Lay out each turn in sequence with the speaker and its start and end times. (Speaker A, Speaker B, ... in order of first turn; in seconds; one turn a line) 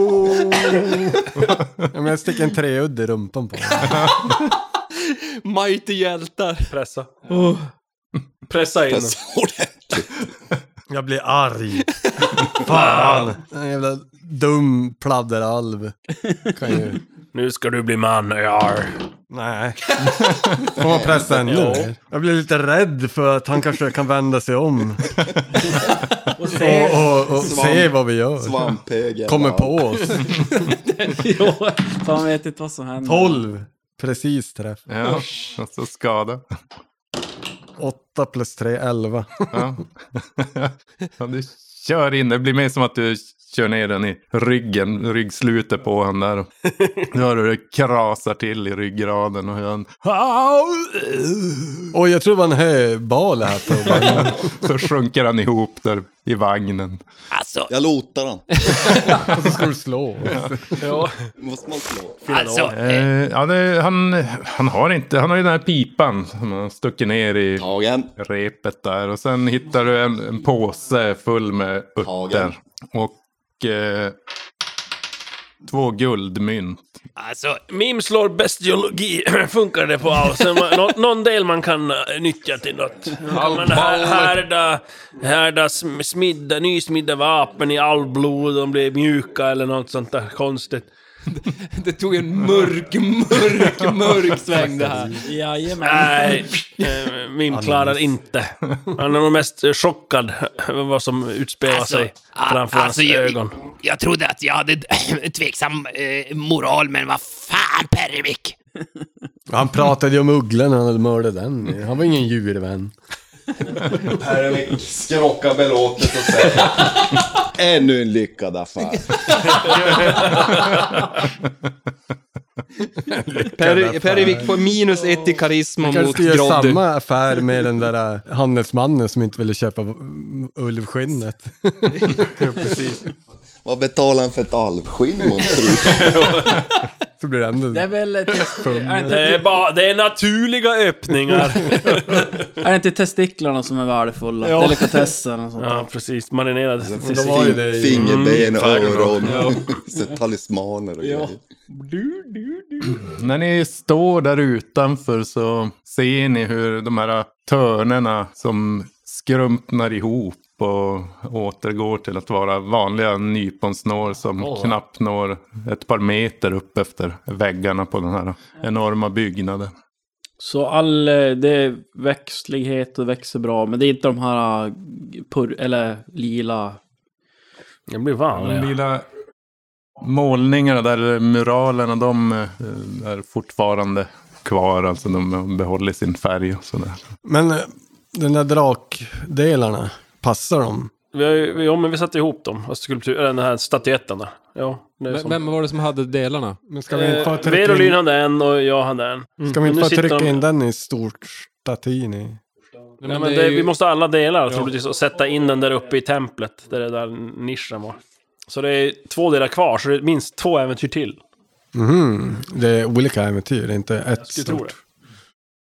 Speaker A: 0.3-1.2
Speaker B: 1.4-1.9
Speaker A: 1.9-4.0
Speaker B: 3.8-4.4
Speaker C: 5.4-6.7
Speaker D: 6.7-7.3
Speaker C: 7.3-7.7
Speaker D: 8.5-9.2
Speaker E: 8.9-10.1
Speaker A: 10.9-15.9
Speaker D: 12.7-13.3
Speaker A: 16.4-17.0
Speaker D: 17.3-19.0
Speaker A: 19.3-25.1
Speaker E: 20.8-21.3
Speaker D: 21.4-21.9
Speaker F: 26.4-27.4
Speaker A: 26.5-28.6
Speaker E: 28.4-30.0
Speaker A: 29.2-30.4
Speaker F: 31.0-33.4
Speaker A: 33.0-34.8
Speaker B: 34.9-36.4
Speaker A: 37.8-39.7
Speaker B: 39.5-51.9
Speaker A: 51.9-54.5
Speaker B: 53.8-57.0
Speaker G: 57.3-57.7
Speaker E: 57.7-58.7
Speaker A: 58.8-60.8
Speaker B: 59.3-59.6
Speaker D: 60.8-61.3
Speaker E: 61.4-62.3
Speaker D: 62.2-62.8
Speaker G: 62.3-63.1
Speaker B: 62.7-67.7
Speaker E: 67.6-68.1
Speaker B: 68.2-74.1
Speaker E: 72.0-72.5
Speaker B: 75.6-76.9
Speaker G: 77.2-77.6
Speaker D: 77.7-90.9
Speaker C: 83.3-84.3
Speaker C: 91.3-95.2
Speaker B: 93.5-94.7
Speaker A: 94.6-95.2
Speaker F: 95.2-96.4
Speaker D: 95.8-103.6
Speaker A: 97.5-98.2
Speaker G: 101.7-108.5
Speaker A: 109.5-112.9
Speaker E: 114.2-116.9
Speaker E: 117.4-119.8
Speaker A: 123.1-124.5
Speaker C: 123.5-126.8
Speaker A: 125.8-133.0
Speaker E: 133.6-136.5
Speaker D: 135.9-136.6
Speaker A: 137.2-139.4
Speaker F: 137.7-139.4
Speaker D: 139.0-142.3
Speaker F: 142.5-145.9
Speaker A: 144.4-145.1
Speaker D: 145.6-149.7
Speaker E: 146.8-151.4
Speaker A: 147.0-148.2
Speaker F: 151.9-152.9
Speaker B: 152.8-169.7
Speaker D: 164.4-164.8
Speaker F: 170.4-176.8
Speaker D: 177.9-178.8
Speaker B: 178.3-179.0
Speaker B: 180.0-187.0
Speaker A: 187.2-190.9
Speaker D: 191.1-195.4
Speaker C: 195.1-196.6
Speaker A: 196.7-198.0
Speaker D: 196.9-200.4
Speaker A: 199.4-202.4
Speaker C: 203.0-203.7
Speaker D: 203.0-211.2
Speaker C: 204.5-204.7
Speaker A: 211.7-214.7
Speaker D: 214.2-214.8